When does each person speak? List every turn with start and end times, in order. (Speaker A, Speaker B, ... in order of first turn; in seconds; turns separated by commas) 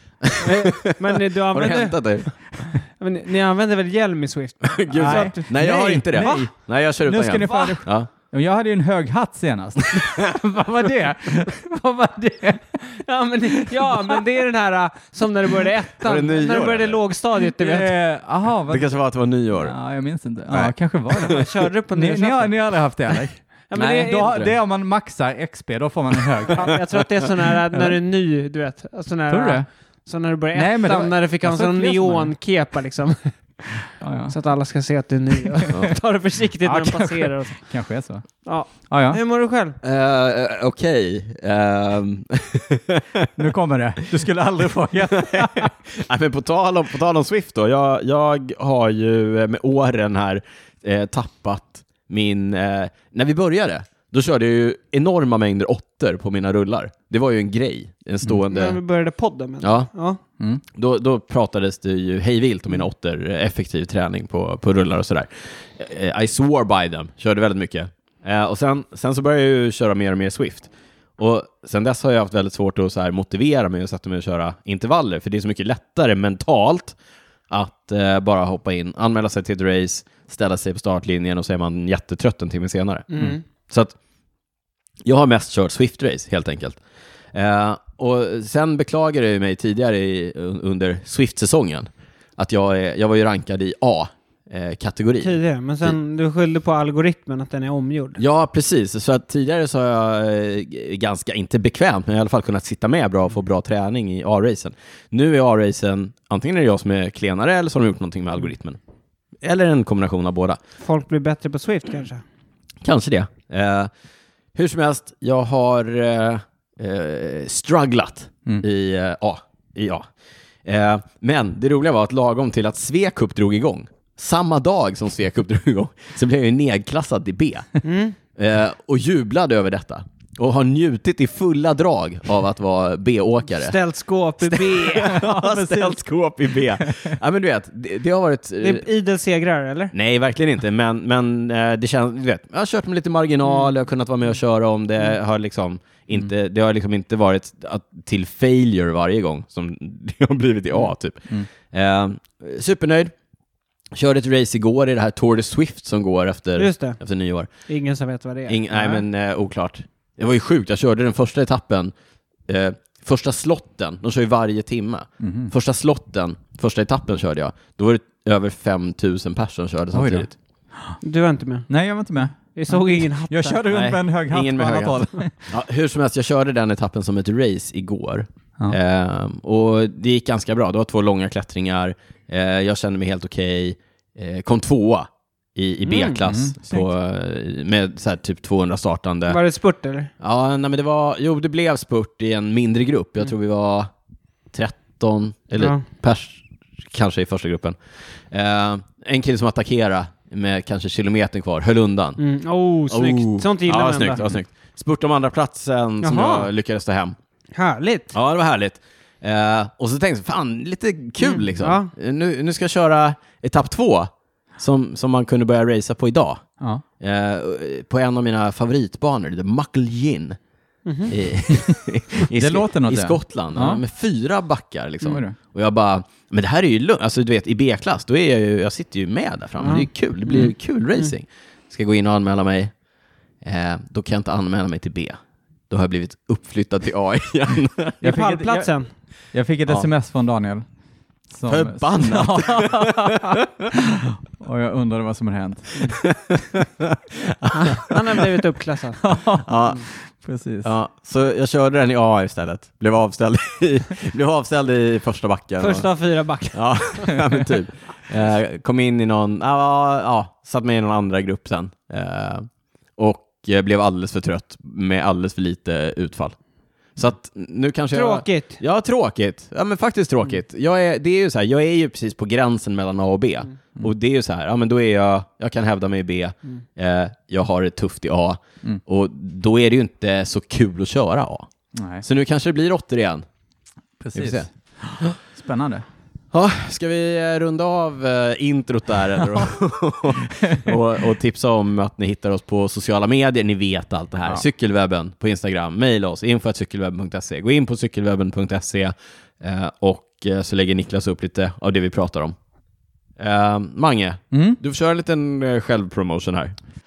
Speaker A: 0.2-2.3, Speaker B: 0.4-5.5, Speaker A: 4.6-8.1, Speaker C: 4.9-6.5, Speaker B: 6.1-6.5, Speaker C: 7.0-12.5, Speaker B: 7.5-7.8, Speaker A: 10.0-10.3, Speaker B: 10.4-17.9, Speaker C: 13.6-14.2, Speaker A: 16.0-17.0, Speaker C: 17.6-18.9, Speaker A: 18.7-19.8, Speaker C: 19.6-26.7, Speaker A: 20.5-21.5, Speaker B: 21.2-22.6, Speaker B: 23.7-24.3, Speaker A: 23.8-24.5, Speaker B: 26.5-33.6, Speaker C: 29.3-29.7, Speaker C: 30.5-32.3, Speaker C: 33.9-34.4, Speaker B: 34.3-37.7, Speaker C: 36.6-39.2, Speaker B: 38.5-39.8, Speaker A: 39.8-43.3, Speaker C: 43.4-45.7, Speaker A: 45.1-58.8, Speaker B: 58.5-60.2, Speaker A: 59.6-59.9, Speaker A: 60.7-77.0, Speaker A: 77.5-83.1, Speaker B: 83.1-83.4, Speaker A: 83.6-84.0, Speaker A: 85.0-86.8, Speaker A: 87.3-95.9, Speaker B: 95.2-98.2, Speaker A: 98.2-108.8, Speaker A: 109.4-110.6, Speaker B: 110.8-112.2, Speaker A: 112.8-113.9, Speaker A: 114.5-120.1, Speaker A: 120.7-127.7, Speaker B: 127.8-128.2, Speaker A: 128.4-133.8, Speaker B: 133.5-135.2, Speaker A: 134.4-138.9, Speaker C: 135.0-136.0, Speaker C: 136.5-137.2, Speaker B: 138.6-139.9, Speaker A: 139.9-153.1, Speaker A: 153.9-157.5, Speaker B: 156.6-157.0, Speaker B: 157.7-159.0, Speaker A: 158.5-161.9, Speaker A: 162.5-170.3, Speaker C: 165.2-165.5, Speaker C: 169.9-171.0, Speaker B: 171.0-171.7, Speaker C: 171.7-175.5, Speaker B: 172.6-173.7, Speaker A: 173.7-189.4, Speaker B: 185.9-186.2, Speaker C: 186.2-186.9, Speaker B: 189.3-190.1, Speaker A: 190.2-193.9, Speaker A: 194.5-197.8, Speaker A: 198.3-202.2, Speaker B: 202.2-204.2, Speaker A: 202.9-207.2, Speaker B: 206.0-206.5, Speaker B: 207.6-208.1, Speaker A: 208.1-216.4, Speaker B: 211.2-211.9, Speaker A: 217.0-220.4, Speaker B: 220.8-221.1, Speaker A: 221.1-232.7, Speaker C: 222.3-223.8, Speaker C: 225.1-225.4, Speaker B: 229.6-230.5, Speaker A: 233.4-235.2, Speaker A: 235.7-238.0, Speaker C: 238.0-238.7, Speaker B: 238.0-238.9, Speaker C: 239.3-240.7, Speaker C: 241.3-246.0, Speaker A: 241.5-243.4, Speaker A: 245.8-248.2, Speaker B: 247.5-249.1, Speaker C: 249.0-250.7, Speaker A: 249.4-249.8, Speaker A: 250.6-255.9, Speaker B: 255.6-257.1, Speaker A: 256.5-266.4, Speaker A: 267.0-281.5, Speaker B: 267.9-268.6, Speaker C: 281.7-282.0, Speaker A: 282.0-283.2, Speaker C: 284.0-285.9, Speaker A: 284.1-284.5, Speaker A: 286.3-302.4, Speaker C: 290.5-290.8, Speaker A: 303.2-306.6, Speaker C: 304.3-304.6